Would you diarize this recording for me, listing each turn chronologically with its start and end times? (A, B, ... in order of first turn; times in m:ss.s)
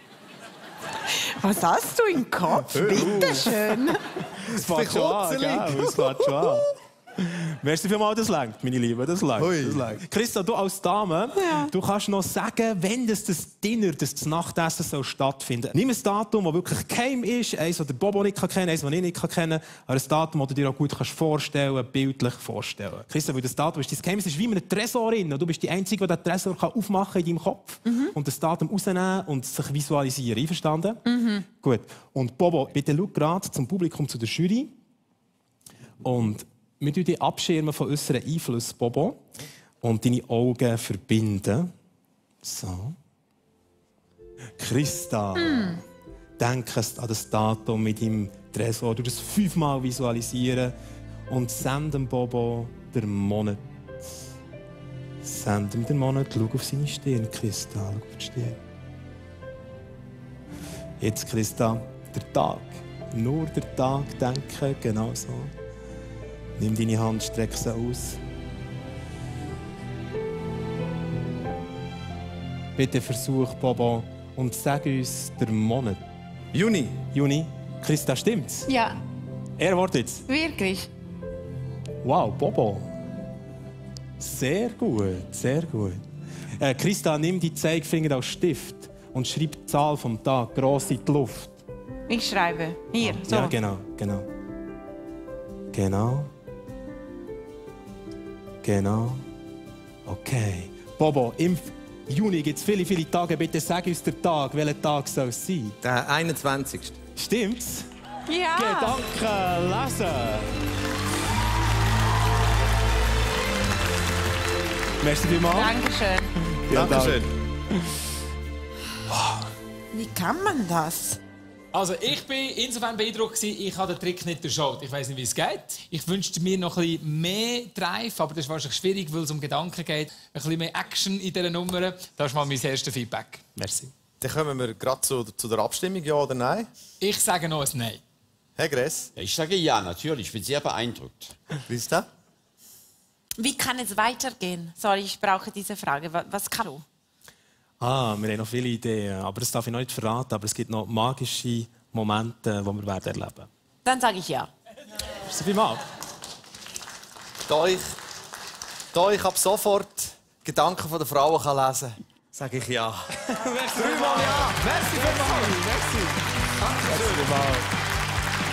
0:01.0-0:04.0 A
0:02.7-0:03.6 B
0:02.8-0:03.5 C
0:04.3-0:34.7 C
0:04.5-0:06.6 B
0:09.4-0:09.8 B
0:11.4-0:11.7 A
0:27.8-0:28.1 A
0:31.0-0:31.4 A
0:36.0-0:39.2 C
0:39.8-0:41.7 C
0:42.4-0:43.0 C
0:44.6-0:45.8 C
0:46.4-0:50.7 C
0:51.3-0:53.6 C
0:55.2-0:58.6 C
1:01.0-1:05.5 C
1:06.6-1:08.2 C
1:12.8-1:16.0 C
1:16.5-1:17.0 B
1:17.1-1:18.7 C
1:18.7-1:19.0 A
1:19.6-1:20.2 C
1:20.3-1:20.9 A
1:22.0-1:22.9 C
1:24.2-1:26.0 C
1:26.6-1:31.6 C
1:32.1-1:33.5 A
1:33.0-1:34.3 C
1:35.7-1:36.3 C
1:38.6-1:39.2 C
1:40.0-1:45.8 C
1:45.8-1:47.0 B
1:47.2-1:47.9 C
1:48.3-1:49.0 A
1:48.5-1:50.6 C
1:55.0-1:55.7 C
1:55.5-1:56.3 A
1:56.5-1:57.2 C
1:56.7-1:57.3 B
1:59.9-2:01.2 A
2:01.7-2:13.4 D
2:13.6-2:13.9 C
2:14.2-2:16.7 B
2:17.0-2:18.0 D
2:18.6-2:19.1 B
2:19.2-2:21.3 E
2:21.7-2:22.1 B
2:23.4-2:26.8 A
2:27.8-2:33.5 C
2:33.8-2:34.5 A
2:35.2-2:35.8 C
2:37.4-2:38.0 B
2:38.9-2:43.1 B
2:43.4-2:44.1 C
2:43.5-2:45.7 D
2:43.7-2:45.3 B
2:44.9-2:46.0 C
2:46.6-2:47.2 D
2:46.8-2:47.6 C